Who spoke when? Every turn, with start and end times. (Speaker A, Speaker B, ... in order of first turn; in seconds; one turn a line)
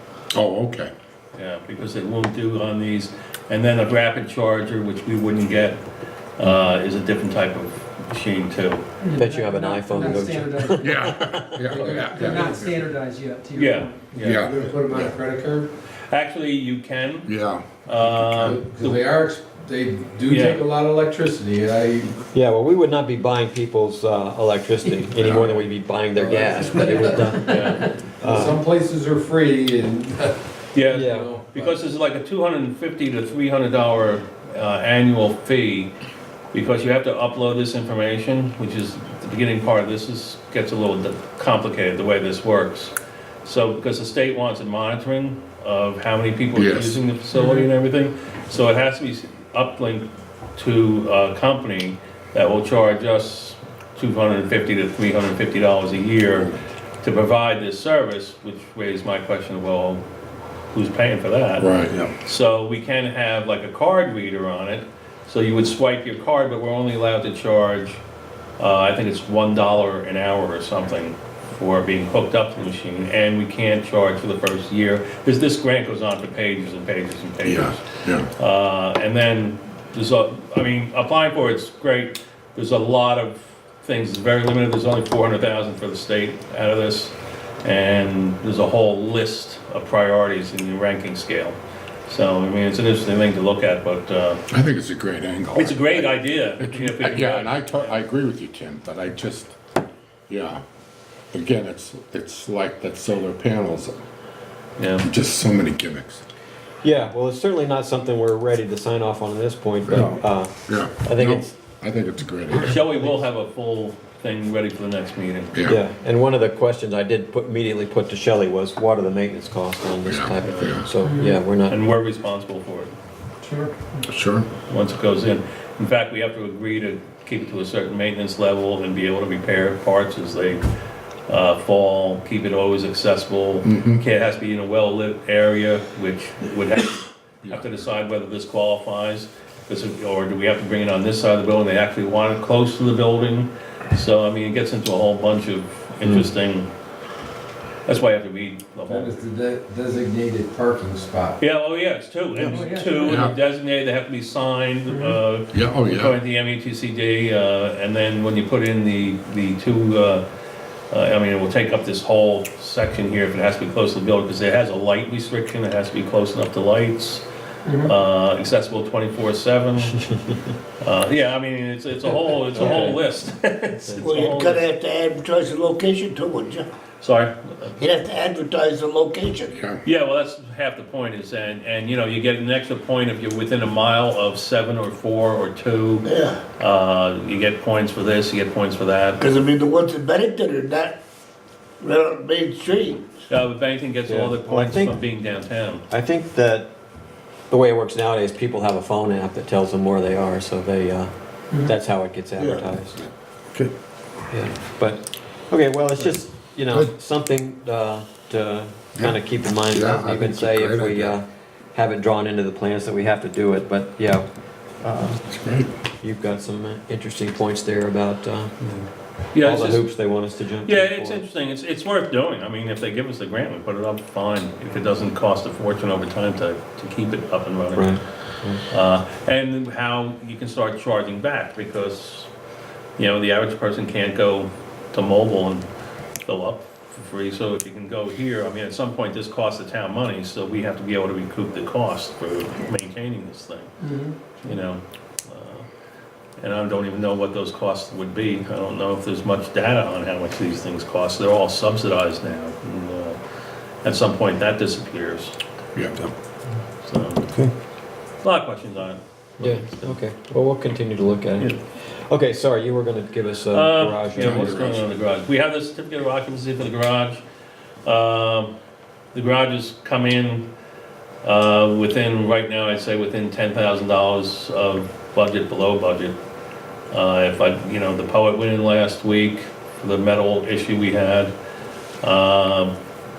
Speaker A: 0.3-0.9
Speaker B: 1.4-5.8
Speaker B: 6.4-8.8
Speaker C: 9.0-11.1
Speaker D: 9.2-11.7
Speaker A: 10.8-12.8
Speaker C: 11.7-14.1
Speaker E: 11.7-12.7
Speaker B: 13.6-14.5
Speaker A: 14.2-15.2
Speaker E: 14.4-15.7
Speaker B: 16.0-17.3
Speaker A: 17.3-18.6
Speaker B: 17.9-19.0
Speaker E: 18.4-22.2
Speaker B: 20.3-20.6
Speaker D: 22.3-28.6
Speaker A: 25.2-25.6
Speaker E: 26.2-27.3
Speaker C: 26.7-27.6
Speaker B: 27.3-28.0
Speaker E: 28.1-30.4
Speaker B: 30.7-35.9
Speaker D: 30.9-31.3
Speaker E: 30.9-31.8
Speaker B: 36.5-60.0
Speaker A: 46.5-47.0
Speaker C: 47.4-47.7
Speaker B: 60.7-68.0
Speaker A: 61.6-62.0
Speaker B: 68.6-94.4
Speaker A: 77.4-78.3
Speaker A: 94.5-99.6
Speaker B: 95.5-98.0
Speaker A: 100.3-100.6
Speaker A: 101.3-104.0
Speaker B: 104.8-105.1
Speaker A: 105.0-106.2
Speaker D: 106.8-111.6
Speaker A: 109.9-112.8
Speaker B: 112.5-115.6
Speaker D: 112.7-113.2
Speaker A: 115.5-115.8
Speaker D: 115.6-121.8
Speaker A: 120.0-120.9
Speaker B: 120.4-120.8
Speaker C: 121.0-121.4
Speaker B: 121.7-123.0
Speaker E: 123.4-123.7
Speaker A: 124.0-124.5
Speaker B: 124.7-130.6
Speaker B: 131.3-146.7
Speaker A: 133.6-134.0
Speaker A: 137.4-137.7
Speaker B: 147.9-149.2
Speaker E: 148.9-151.4
Speaker B: 151.4-160.2
Speaker A: 152.4-153.3
Speaker C: 152.5-153.3
Speaker C: 154.9-155.2
Speaker A: 155.5-156.2
Speaker B: 160.9-167.2
Speaker C: 167.7-167.9
Speaker B: 167.8-170.2
Speaker B: 170.8-174.7
Speaker D: 172.6-172.9
Speaker F: 173.9-176.7
Speaker B: 177.0-177.8
Speaker F: 177.8-179.6
Speaker A: 179.5-179.8
Speaker B: 179.8-189.2
Speaker F: 186.0-186.4
Speaker F: 189.2-191.0
Speaker F: 191.8-193.2
Speaker B: 193.3-195.8
Speaker D: 194.1-195.0
Speaker D: 195.9-196.7
Speaker D: 197.5-203.0
Speaker F: 202.4-202.7
Speaker A: 203.0-203.7
Speaker D: 204.3-214.3
Speaker A: 209.7-211.2
Speaker D: 214.8-215.2
Speaker A: 215.3-215.7
Speaker D: 216.0-218.6
Speaker B: 218.6-219.8
Speaker D: 219.4-221.2
Speaker B: 220.6-227.9
Speaker D: 227.7-228.6
Speaker B: 228.7-232.3
Speaker B: 233.0-235.7
Speaker B: 236.2-243.7
Speaker C: 243.8-244.2
Speaker B: 244.4-245.7
Speaker B: 246.4-253.2
Speaker B: 253.8-255.4
Speaker A: 255.8-256.1
Speaker B: 256.8-257.3
Speaker B: 258.2-260.0
Speaker D: 259.4-264.7
Speaker B: 263.5-267.2
Speaker A: 264.1-264.9
Speaker B: 267.9-268.5
Speaker B: 269.1-270.5
Speaker B: 271.2-276.2
Speaker B: 276.9-281.3
Speaker B: 282.0-282.8